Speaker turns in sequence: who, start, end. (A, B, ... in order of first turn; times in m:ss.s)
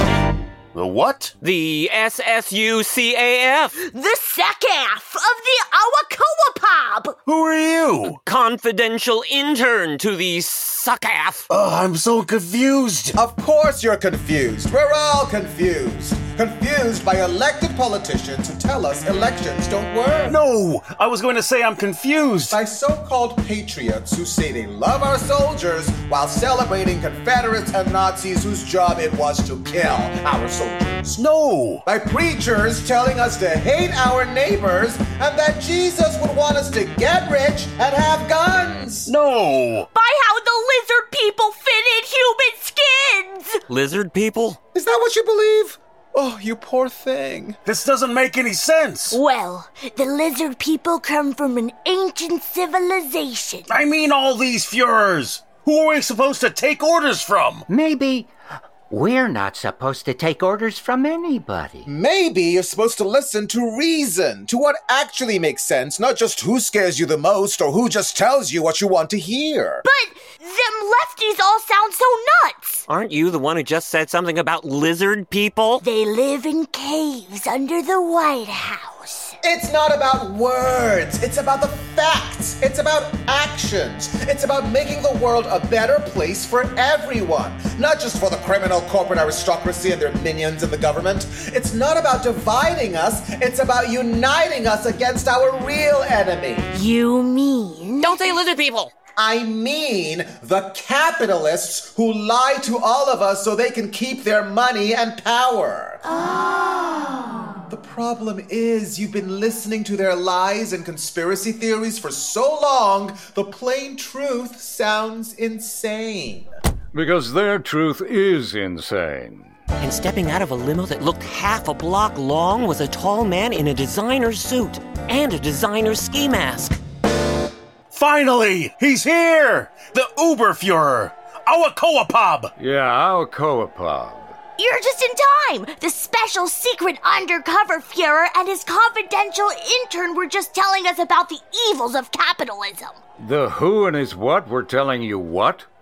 0:00.7-0:01.3 A
0:01.4-0:03.8 B
0:03.8-0:07.2 C
0:07.3-0:08.2 A
0:08.2-0:11.4 B
0:11.5-0:13.2 A
0:13.2-0:20.4 D
0:20.3-0:22.6 A
0:22.5-0:31.2 D
0:31.2-0:31.8 A
0:31.8-0:39.1 D
0:39.1-0:39.9 A
0:39.9-0:43.6 C
0:43.7-0:44.6 B
0:44.7-0:47.6 D
0:47.7-0:49.2 A
0:49.1-0:53.7 C
0:53.7-0:57.7 A
0:57.7-0:58.3 E
0:58.9-1:01.9 E
1:01.9-1:09.8 D
1:09.8-1:12.8 C
1:12.9-1:15.8 B
1:15.8-1:19.4 C
1:19.4-1:36.7 D
1:36.7-1:38.4 C
1:38.0-1:38.9 B
1:39.2-1:46.0 D
1:46.0-1:47.5 C
1:47.7-1:56.5 D
1:56.9-1:59.5 F
1:59.8-2:06.8 B
2:07.9-2:12.5 A
2:12.6-2:14.4 F
2:14.6-2:23.0 C
2:23.2-2:25.7 F